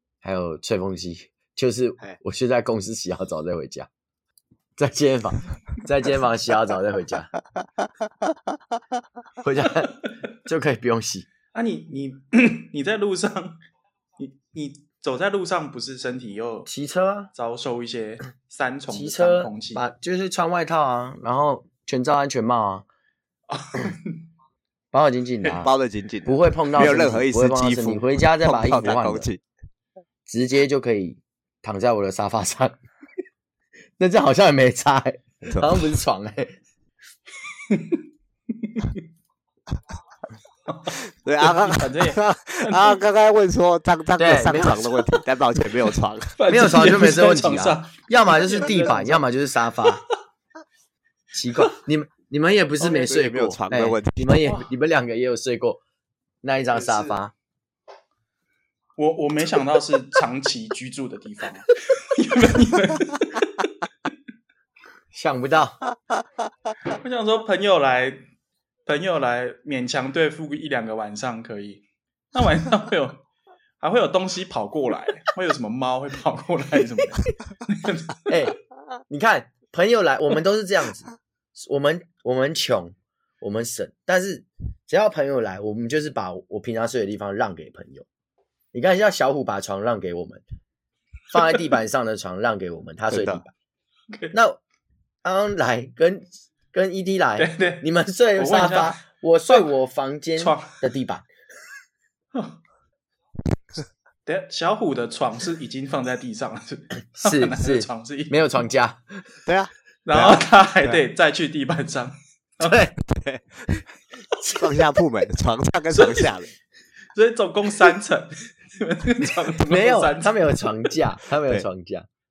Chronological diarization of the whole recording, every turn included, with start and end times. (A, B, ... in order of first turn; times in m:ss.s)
0:00.2-0:03.9 A
0:04.8-0:07.3 A
0:09.4-0:11.3 A
0:11.5-0:13.6 B
0:14.2-0:16.7 B
0:16.7-0:17.3 A
0:17.3-0:19.8 B
0:18.9-0:22.9 A
0:23.5-0:24.2 B
0:24.9-0:25.7 A
0:25.6-0:29.4 C
0:26.3-0:29.3 A
0:30.3-0:32.8 A
0:34.0-0:36.6 A
0:35.4-0:35.8 C
0:37.7-0:38.0 B
0:38.6-0:39.0 B
0:40.7-0:43.0 B
0:40.9-0:46.4 C
0:44.2-0:45.0 A
0:46.4-0:49.2 B
0:46.5-0:50.0 A
0:51.3-0:55.8 A
0:52.8-0:54.6 C
0:56.4-0:57.3 A
0:56.7-0:57.1 B
0:59.0-1:03.5 B
1:05.1-1:05.8 A
1:06.9-1:08.2 B
1:08.9-1:13.2 B
1:13.8-1:18.4 B
1:18.3-1:18.6 A
1:19.1-1:28.1 A
1:28.7-1:30.4 A
1:31.3-1:33.5 A
1:33.1-1:33.4 C
1:34.1-1:34.4 B
1:34.3-1:34.6 A
1:35.2-1:41.3 A
1:37.4-1:37.8 B
1:38.4-1:39.0 B
1:40.4-1:40.8 B
1:44.3-1:48.5 B
1:47.2-1:49.1 A
1:49.4-1:51.0 C
1:50.1-1:52.9 B
1:52.6-1:52.9 A
1:53.0-1:53.7 C
1:54.5-1:56.5 C
1:55.9-1:56.3 B
1:57.1-2:00.7 B
1:59.6-2:02.1 A